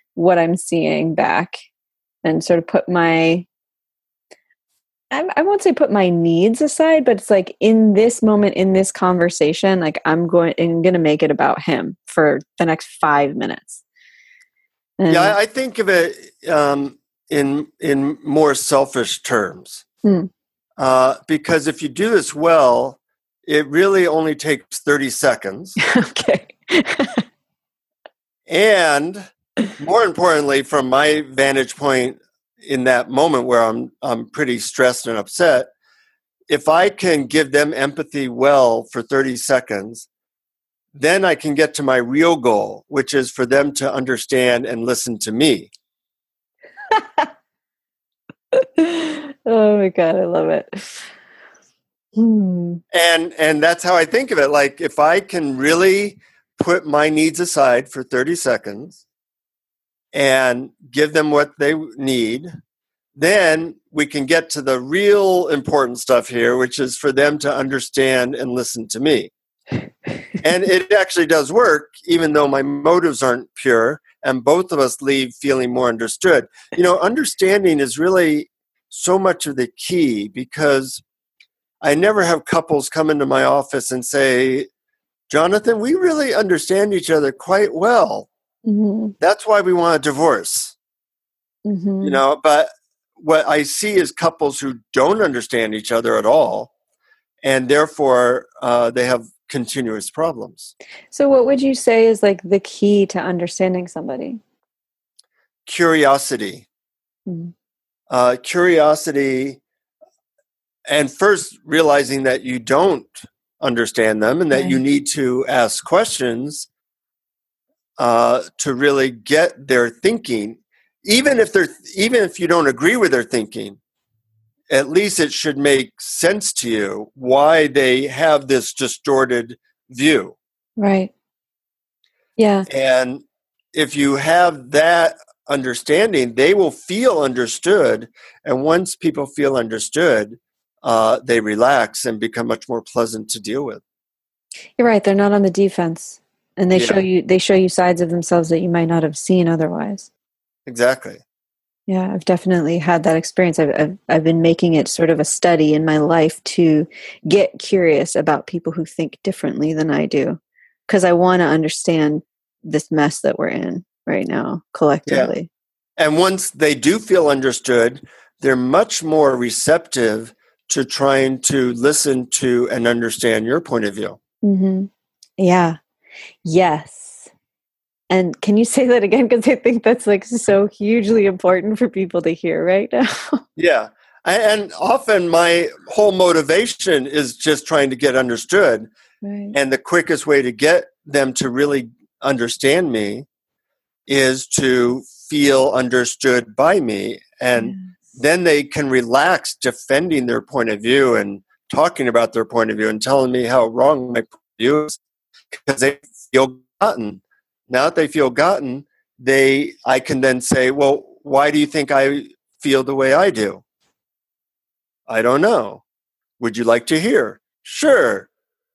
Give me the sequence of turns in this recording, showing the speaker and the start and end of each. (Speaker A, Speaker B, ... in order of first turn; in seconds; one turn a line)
Speaker A: 0.1-1.6
Speaker A: 2.2-3.5
Speaker A: 5.1-13.8
Speaker A: 15.0-15.4
Speaker B: 15.1-19.8
Speaker A: 20.0-20.3
Speaker B: 20.8-25.8
Speaker A: 25.8-27.2
Speaker B: 28.5-35.7
Speaker B: 36.5-40.1
Speaker B: 41.0-45.7
Speaker A: 46.9-47.3
Speaker A: 48.5-51.1
Speaker A: 52.2-52.8
Speaker B: 52.9-59.0
Speaker B: 60.1-62.5
Speaker B: 63.2-69.3
Speaker B: 70.4-81.0
Speaker B: 81.8-84.7
Speaker B: 85.3-88.3
Speaker A: 88.7-89.1
Speaker B: 89.2-90.8
Speaker A: 91.7-92.2
Speaker B: 92.0-96.7
Speaker B: 97.4-100.7
Speaker A: 101.1-104.4
Speaker B: 105.7-106.7
Speaker A: 107.3-107.5
Speaker B: 108.1-109.6
Speaker B: 110.9-116.7
Speaker A: 114.5-114.8
Speaker B: 118.0-123.8
Speaker B: 124.7-130.3
Speaker A: 130.8-131.1
Speaker A: 132.4-132.7
Speaker B: 132.7-143.8
Speaker A: 144.8-150.1
Speaker B: 146.7-147.0
Speaker B: 150.7-151.2
Speaker A: 151.9-165.5
Speaker B: 166.0-174.2
Speaker A: 174.4-175.8
Speaker A: 176.4-177.3
Speaker A: 178.1-183.4
Speaker B: 183.6-188.9
Speaker A: 189.2-189.6
Speaker B: 189.5-193.3
Speaker B: 194.1-205.0
Speaker A: 197.6-197.9
Speaker B: 205.6-213.6
Speaker B: 215.1-215.8
Speaker B: 216.4-218.3